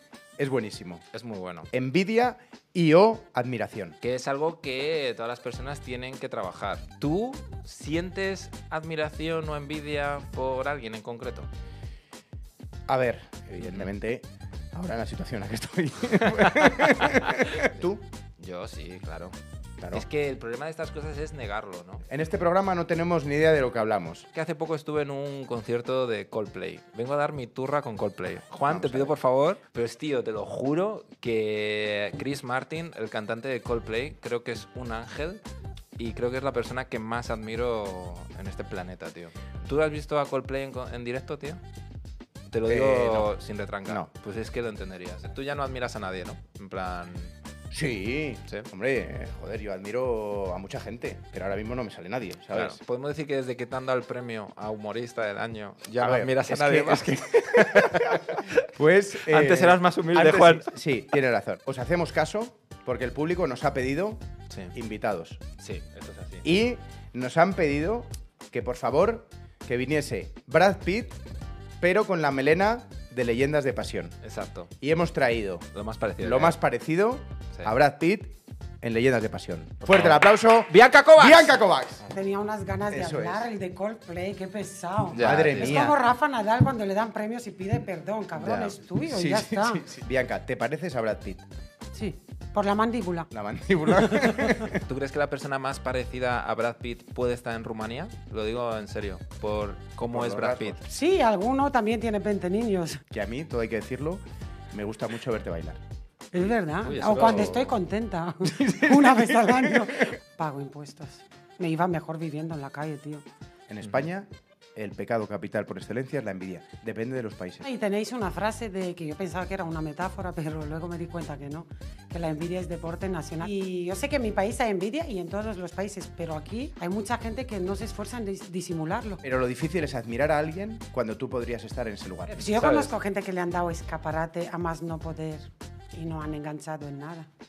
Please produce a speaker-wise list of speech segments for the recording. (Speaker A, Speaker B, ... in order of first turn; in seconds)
Speaker A: 0.4-1.0, 1.7-4.0, 12.9-18.0, 19.8-20.1, 22.1-24.3, 28.7-29.1, 42.7-43.3, 47.7-52.8, 56.0-64.2, 64.7-65.4, 66.4-71.2, 71.8-74.2, 74.8-75.7, 76.2-82.1, 82.9-83.5, 85.2-86.0, 89.1-91.4, 93.3-94.8, 100.1-100.8, 103.1-105.8, 108.5-109.8, 113.7-117.6, 129.2-132.5
Speaker B: 1.1-1.7, 4.0-11.5, 13.6-13.9, 16.7-19.4, 19.9-22.1, 24.3-35.4, 36.0-41.6, 42.5-47.3, 52.5-60.8, 65.6-66.5, 74.2-74.7, 75.7-76.6, 79.8-81.6, 85.1-85.9, 88.4-88.8, 94.8-100.8, 106.4-107.8, 132.4-132.9
Speaker C: 82.1-89.9, 91.9-93.3, 94.0-94.7, 100.9-103.0, 106.3-113.2, 117.6-129.2, 132.4-137.3